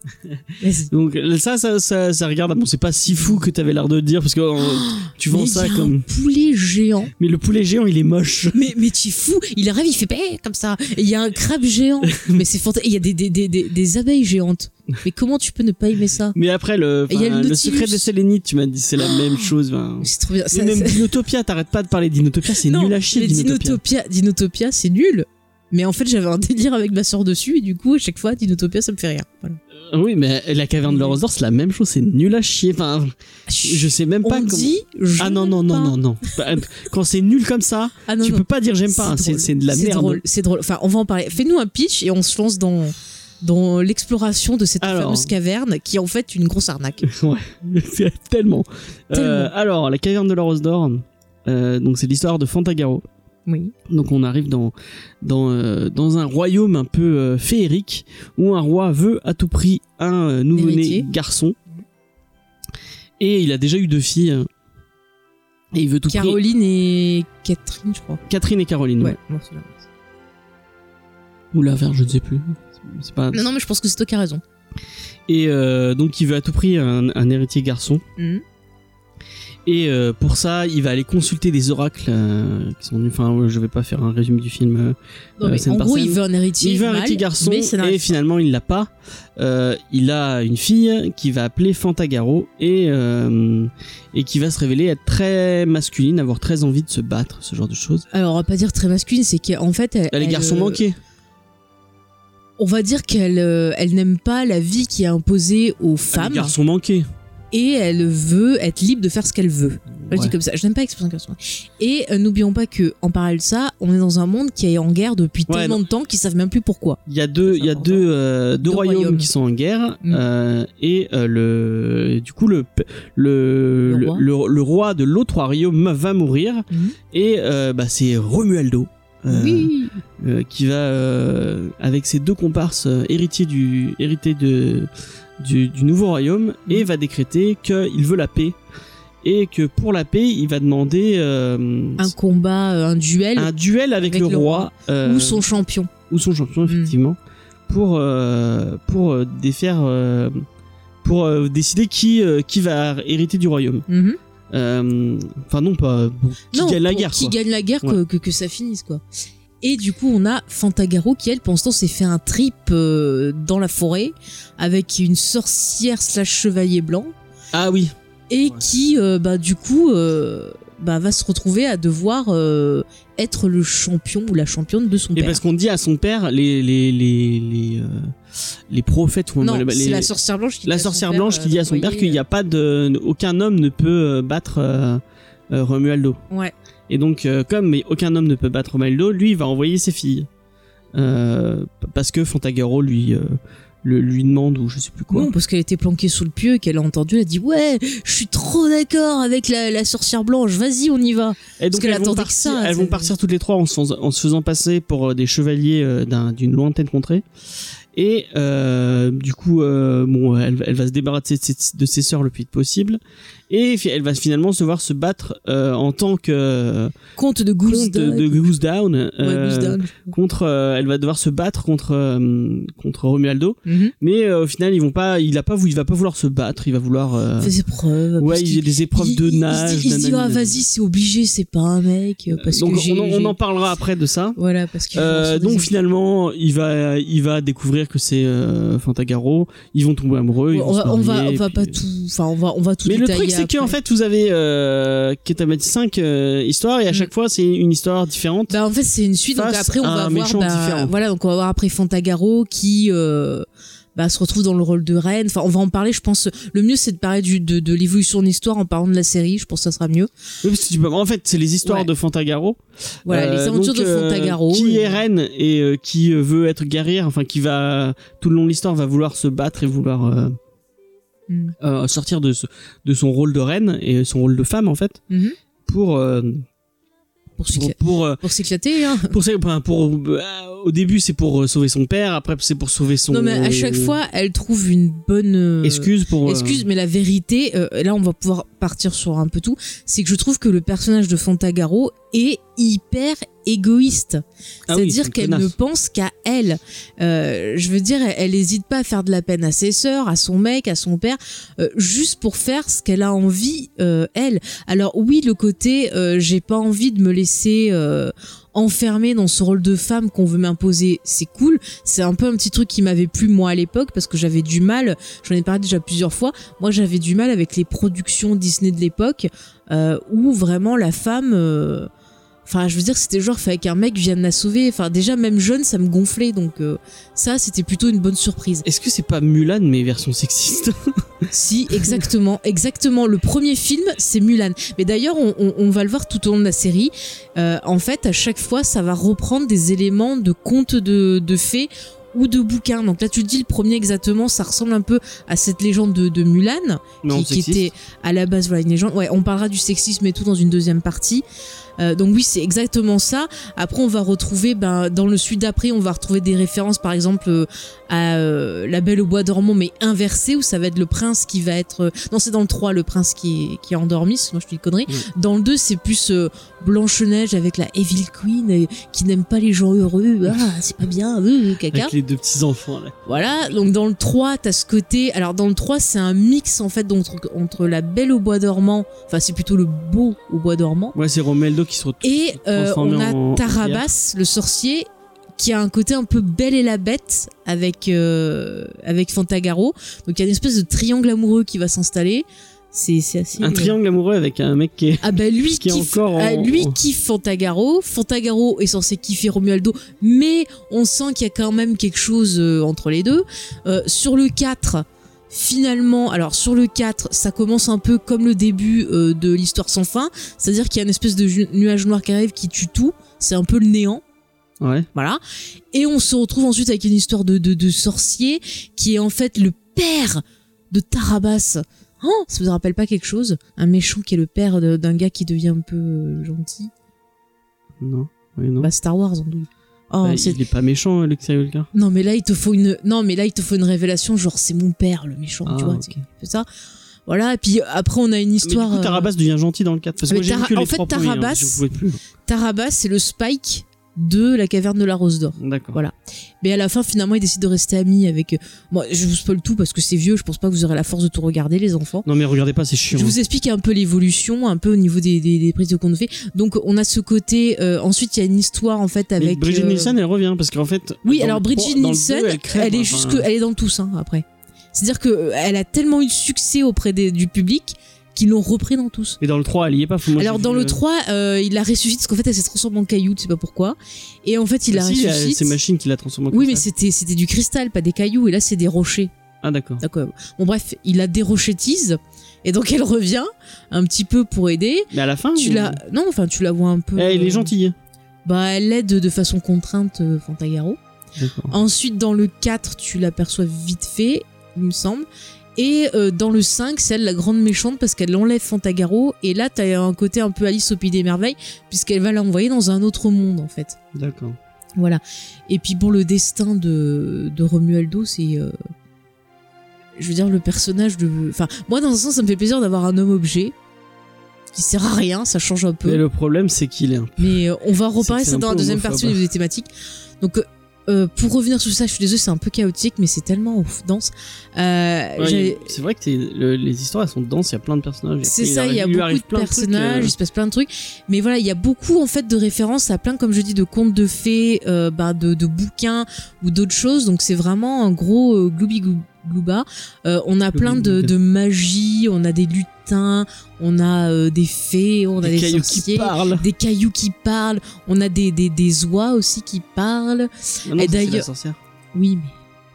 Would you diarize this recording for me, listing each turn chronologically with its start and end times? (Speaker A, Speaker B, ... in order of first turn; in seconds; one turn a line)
Speaker A: 0.6-0.9
Speaker B: 0.9-6.0
Speaker A: 3.1-3.4
Speaker A: 4.6-7.1
Speaker B: 7.2-8.6
Speaker A: 8.5-16.4
Speaker B: 12.0-12.4
Speaker B: 16.3-23.8
Speaker A: 17.1-18.1
Speaker A: 19.0-19.3
Speaker A: 20.0-21.1
Speaker A: 22.6-29.6
Speaker B: 29.8-33.1
Speaker A: 30.9-31.2
Speaker A: 33.5-35.9
Speaker B: 33.6-40.2
Speaker A: 38.1-47.1
Speaker B: 44.8-45.3
Speaker B: 47.0-53.0
Speaker A: 49.1-49.5
Speaker A: 53.5-53.7
Speaker B: 53.9-61.5
Speaker A: 60.5-61.1
Speaker B: 63.2-64.5
Speaker B: 65.7-66.4
Speaker A: 66.1-68.2
Speaker B: 68.3-69.2
Speaker A: 69.0-69.8
Speaker B: 71.5-73.4
Speaker A: 73.3-74.4
Speaker B: 75.3-78.0
Speaker A: 78.2-78.4
Speaker B: 79.7-98.0
Speaker A: 85.4-88.2
Speaker A: 98.1-100.8
Speaker B: 100.1-101.0
Speaker A: 102.6-106.5
Speaker B: 106.1-107.1
Speaker A: 107.5-118.1
Speaker B: 110.0-110.3
Speaker B: 115.5-115.8
Speaker B: 117.1-138.6
Speaker A: 118.6-119.3
Speaker A: 123.9-124.2
Speaker A: 126.7-127.0
Speaker A: 129.3-130.0
Speaker B: 139.2-142.1
Speaker A: 142.0-143.5
Speaker B: 143.3-145.5
Speaker A: 144.0-145.9
Speaker B: 146.1-150.4
Speaker A: 146.7-146.9
Speaker B: 151.0-153.8
Speaker A: 153.9-154.2
Speaker B: 154.5-158.0
Speaker A: 156.5-159.0
Speaker A: 159.6-167.1
Speaker B: 167.5-167.9
Speaker A: 168.3-175.4
Speaker B: 175.1-178.1
Speaker B: 178.7-180.1
Speaker A: 179.4-182.2
Speaker B: 180.7-186.2
Speaker B: 186.9-190.3
Speaker B: 190.9-195.3
Speaker A: 195.1-203.1
Speaker B: 201.6-207.2
Speaker B: 207.9-216.9
Speaker A: 217.2-218.5
Speaker B: 217.7-227.5
Speaker A: 219.2-220.1
Speaker A: 223.7-223.9
Speaker A: 227.4-233.3
Speaker B: 228.2-230.6
Speaker B: 232.3-234.4
Speaker A: 234.3-235.7
Speaker B: 234.9-241.8
Speaker A: 240.5-243.8
Speaker B: 242.8-248.6
Speaker A: 248.5-260.1
Speaker B: 249.3-250.9
Speaker B: 260.4-270.4
Speaker A: 261.6-261.9
Speaker A: 263.1-265.0
Speaker A: 271.3-271.5
Speaker B: 271.6-275.0
Speaker A: 275.1-275.3
Speaker B: 275.6-276.4
Speaker A: 277.4-279.1
Speaker B: 277.5-278.2
Speaker B: 279.0-283.9
Speaker A: 283.1-321.9
Speaker B: 285.6-286.6
Speaker B: 294.7-295.5
Speaker A: 322.4-328.6
Speaker B: 328.6-331.3
Speaker A: 331.3-351.2
Speaker B: 347.0-347.7
Speaker A: 351.8-371.9
Speaker B: 371.7-373.7
Speaker A: 373.1-380.9
Speaker B: 380.9-383.8
Speaker A: 382.0-393.8
Speaker B: 393.4-396.8
Speaker A: 395.0-414.0
Speaker B: 414.6-414.9
Speaker A: 414.9-415.2
Speaker A: 415.7-426.7
Speaker B: 427.8-428.7
Speaker A: 428.6-430.4
Speaker B: 430.0-431.7
Speaker A: 431.7-436.5
Speaker B: 435.4-436.0
Speaker A: 437.1-439.1
Speaker B: 438.4-442.0
Speaker A: 440.1-441.6
Speaker A: 442.2-452.1
Speaker B: 445.4-445.8
Speaker B: 452.0-453.1
Speaker A: 452.9-459.9
Speaker B: 459.2-463.3
Speaker A: 461.0-469.2
Speaker B: 469.2-470.8
Speaker A: 470.2-475.6
Speaker B: 474.7-476.6
Speaker A: 476.3-479.1
Speaker B: 479.4-479.8
Speaker A: 479.8-487.5
Speaker B: 484.9-485.8
Speaker B: 486.9-487.8
Speaker A: 488.2-490.8
Speaker B: 491.2-491.5
Speaker A: 491.5-503.8
Speaker B: 503.9-504.4
Speaker A: 504.8-508.5
Speaker A: 510.0-513.5
Speaker A: 514.5-516.0
Speaker B: 515.8-517.4
Speaker A: 517.2-519.7
Speaker B: 518.0-519.2
Speaker A: 520.2-525.7
Speaker B: 525.2-530.1
Speaker A: 528.2-551.3
Speaker B: 540.5-541.1
Speaker B: 545.2-546.4
Speaker B: 550.6-551.6
Speaker A: 551.9-552.3